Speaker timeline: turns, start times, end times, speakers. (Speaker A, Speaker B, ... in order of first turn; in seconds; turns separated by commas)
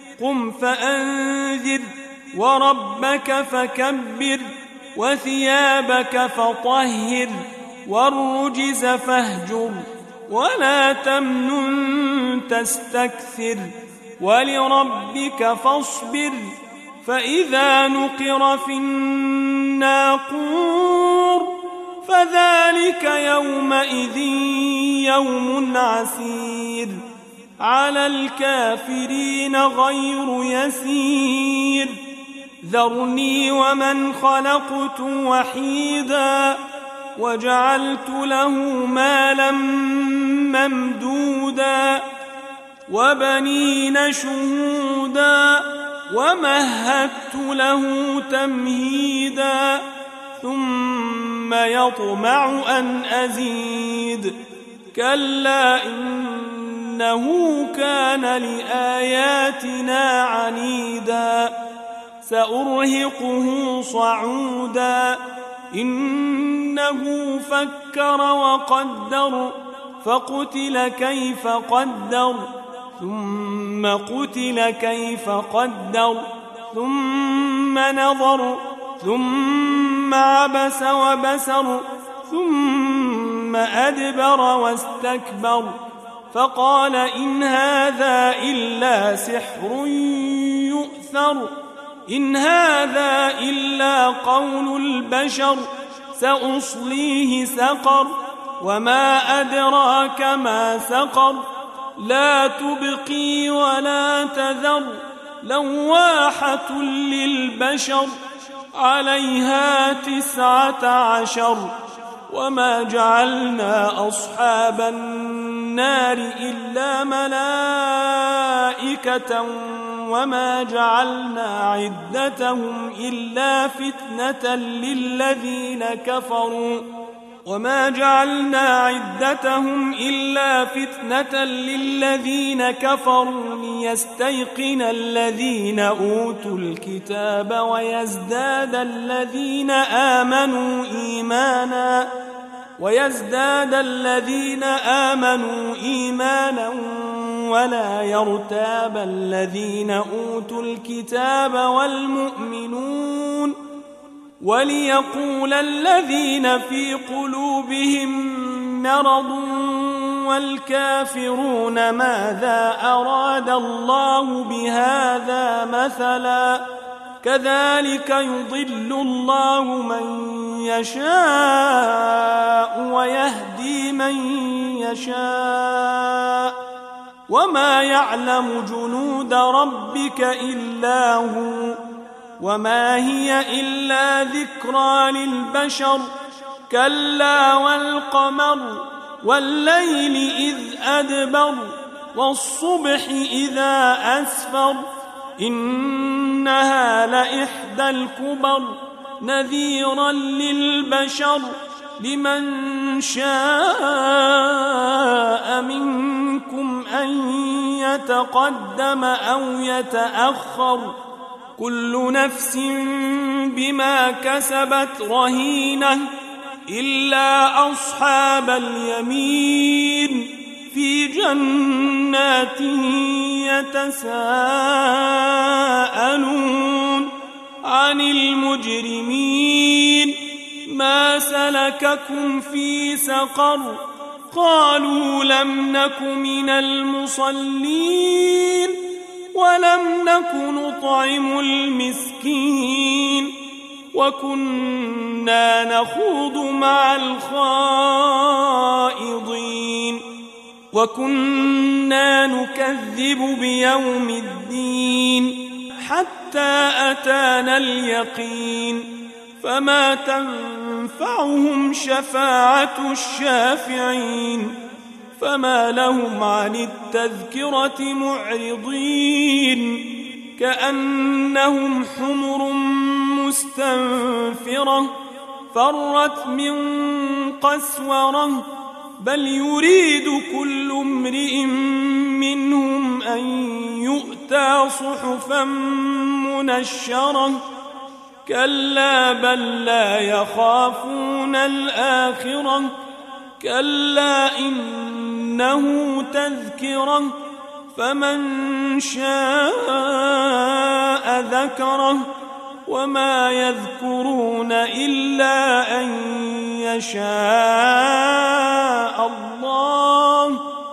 Speaker A: 0.2-27.0, Speaker A: 27.6-32.0, Speaker A: 32.6-36.6, Speaker A: 37.2-42.0, Speaker A: 42.9-49.9, Speaker A: 50.4-54.4, Speaker A: 54.9-61.6, Speaker A: 62.2-85.8, Speaker A: 86.3-91.5, Speaker A: 92.1-108.2, Speaker A: 108.7-111.7, Speaker A: 112.3-126.9, Speaker A: 127.5-142.1, Speaker A: 142.8-153.6, Speaker A: 154.4-166.7, Speaker A: 167.2-176.6, Speaker A: 177.3-181.8, Speaker A: 182.4-186.1, Speaker A: 186.7-194.8, Speaker A: 195.4-210.9, Speaker A: 211.6-216.1, Speaker A: 216.7-243.4, Speaker A: 243.9-250.1, Speaker A: 250.7-264.6, Speaker A: 265.2-274.9, Speaker A: 275.5-287.4, Speaker A: 288.2-292.7, Speaker A: 293.4-297.2, Speaker A: 297.7-302.1, Speaker A: 302.7-310.5